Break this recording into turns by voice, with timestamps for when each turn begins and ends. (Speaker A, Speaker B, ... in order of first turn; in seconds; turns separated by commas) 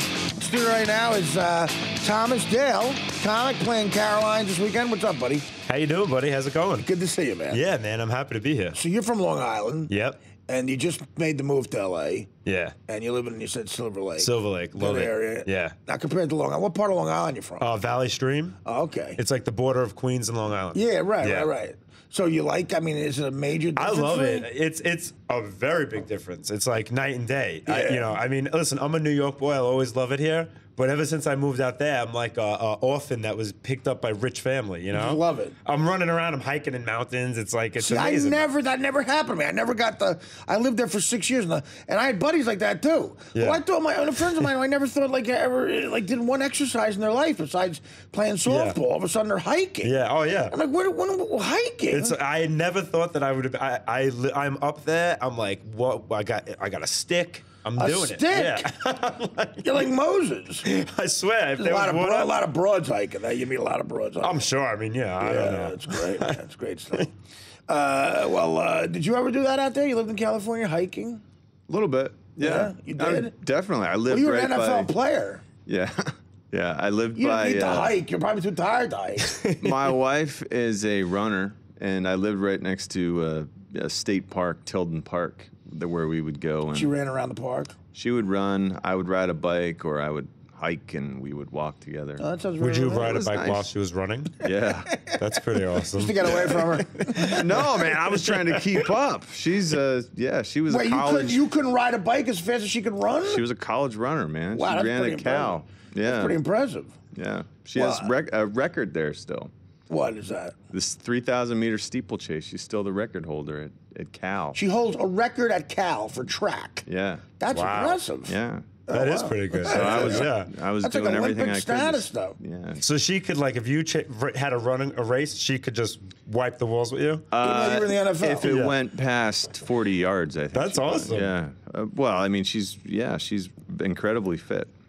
Speaker A: 0.4-5.5, Speaker B: 5.7-6.8, Speaker A: 6.8-7.6, Speaker B: 7.5-8.8, Speaker A: 8.7-9.9, Speaker B: 9.9-10.2, Speaker A: 10.5-12.3, Speaker B: 12.4-12.7, Speaker A: 12.9-17.7, Speaker B: 14.2-15.7, Speaker B: 17.6-18.6, Speaker A: 18.6-19.2, Speaker B: 19.2-21.5, Speaker A: 20.7-24.5, Speaker B: 23.8-38.5, Speaker A: 27.7-28.1, Speaker A: 34.9-35.5, Speaker A: 37.8-49.9, Speaker B: 43.3-43.6, Speaker B: 48.5-48.8, Speaker B: 49.8-50.5, Speaker A: 50.5-52.1, Speaker B: 51.9-59.7, Speaker A: 57.8-58.7, Speaker A: 59.6-60.6, Speaker B: 60.6-62.3, Speaker A: 61.6-64.5, Speaker B: 64.2-66.4, Speaker A: 65.2-67.1, Speaker A: 67.7-71.2, Speaker C: 71.7-74.9, Speaker A: 72.4-73.3, Speaker A: 74.1-75.4, Speaker C: 75.7-78.0, Speaker A: 77.1-79.3, Speaker B: 79.3-79.8, Speaker C: 79.6-86.9, Speaker A: 86.7-87.7, Speaker C: 87.9-92.2, Speaker A: 92.2-93.2, Speaker B: 92.6-94.4, Speaker C: 92.9-93.7, Speaker C: 94.4-94.9, Speaker B: 95.2-98.6, Speaker A: 95.8-97.5, Speaker C: 97.3-101.4, Speaker A: 100.7-103.4, Speaker C: 103.2-106.4, Speaker A: 104.5-106.9, Speaker C: 107.1-109.5, Speaker A: 107.7-108.1, Speaker A: 109.9-110.5, Speaker C: 110.7-114.6, Speaker A: 114.5-116.8, Speaker C: 116.8-117.2, Speaker A: 117.4-118.3, Speaker B: 117.5-118.0, Speaker C: 118.3-118.7, Speaker A: 118.9-122.4, Speaker B: 118.9-120.5, Speaker C: 119.6-122.8, Speaker B: 122.8-127.3, Speaker C: 127.3-134.7, Speaker A: 127.4-128.5, Speaker B: 128.4-128.8, Speaker B: 130.5-131.3